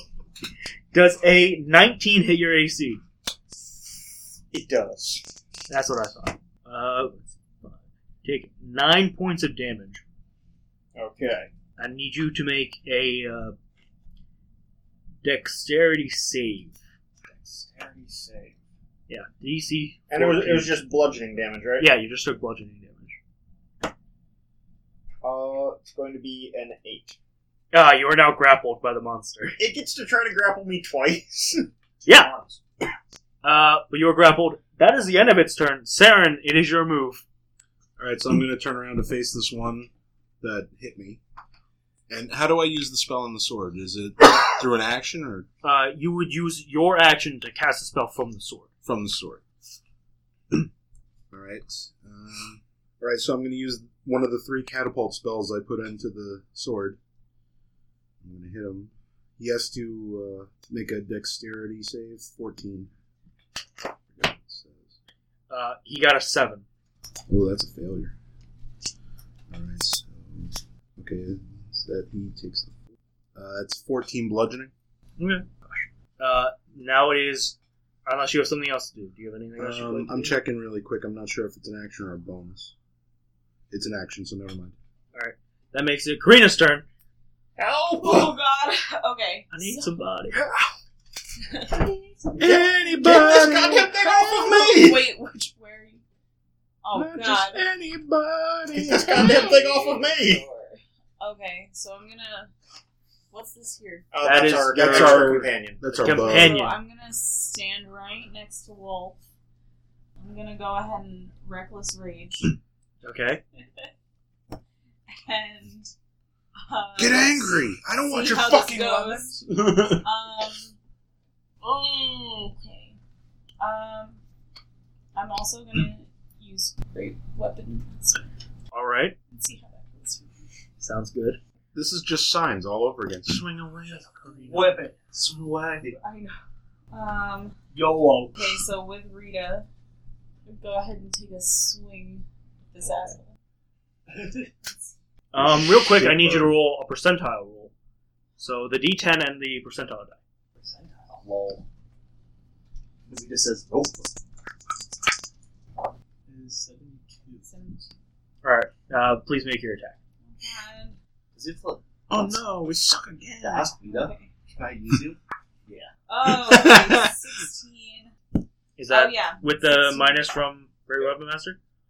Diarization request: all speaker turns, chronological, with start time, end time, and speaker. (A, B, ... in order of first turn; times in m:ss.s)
0:00.9-0:03.0 A
0:04.5-0:05.2 B
0:05.7-0:10.0 A
0:11.0-0:11.5 B
0:11.8-0:13.6 A
0:15.2-0:16.8 A
0:17.3-0:18.6 B
0:19.1-0:20.7 A
0:20.1-0:21.9 B
0:21.8-0:23.2 A
0:25.2-0:27.2 B
0:27.7-0:29.6 A
0:29.6-0:32.6 B
0:32.0-0:32.3 A
0:33.4-0:37.2 A
0:38.0-0:39.9 C
0:40.4-0:41.2 C
0:42.1-0:45.5 C
0:45.6-0:48.7 A
0:48.8-0:49.4 C
0:51.3-0:57.0 C
0:58.2-1:02.9 C
1:04.1-1:05.0 C
1:05.5-1:06.6 A
1:07.3-1:08.2 C
1:09.5-1:12.8 C
1:13.4-1:14.7 C
1:15.2-1:20.4 A
1:19.6-1:22.7 C
1:23.7-1:24.8 C
1:25.1-1:26.9 A
1:27.6-1:28.4 B
1:28.0-1:29.9 D
1:29.5-1:30.4 A
1:31.4-1:36.0 D
1:32.4-1:33.9 C
1:32.4-1:35.1 B
1:36.8-1:37.6 D
1:36.9-1:39.5 C
1:38.7-1:40.4 B
1:39.0-1:42.5 D
1:43.3-1:44.1 D
1:44.1-1:46.1 B
1:44.2-1:45.4 A
1:44.7-1:46.6 C
1:46.0-1:46.8 A
1:46.2-1:49.2 D
1:50.2-1:52.6 D
1:53.0-1:53.4 A
1:53.6-1:53.9 D
1:55.1-1:55.9 D
1:56.6-2:00.8 D
1:57.0-1:58.9 C
1:58.3-1:59.4 E
1:59.4-2:00.0 C
2:01.6-2:03.0 D
2:03.6-2:04.2 D
2:05.2-2:08.3 D
2:08.7-2:09.2 A
2:09.3-2:10.4 D
2:10.8-2:11.4 A
2:11.7-2:14.1 C
2:14.5-2:15.0 A
2:14.5-2:14.8 E
2:15.1-2:16.0 F
2:15.9-2:16.4 D
2:16.9-2:17.6 D
2:17.7-2:18.3 E
2:18.3-2:19.7 D
2:20.5-2:23.3 D
2:24.5-2:24.9 D
2:25.3-2:27.7 A
2:25.4-2:26.6 C
2:28.4-2:30.2 A
2:30.6-2:31.6 F
2:33.1-2:34.2 F
2:36.3-2:37.5 E
2:37.4-2:37.9 D
2:38.4-2:40.0 A
2:40.2-2:41.0 D
2:41.3-2:42.4 F
2:42.1-2:43.6 C
2:43.4-2:45.9 F
2:43.5-2:44.3 D
2:46.1-2:48.1 D
2:46.2-2:47.2 C
2:48.8-2:51.6 A
2:48.9-2:50.3 D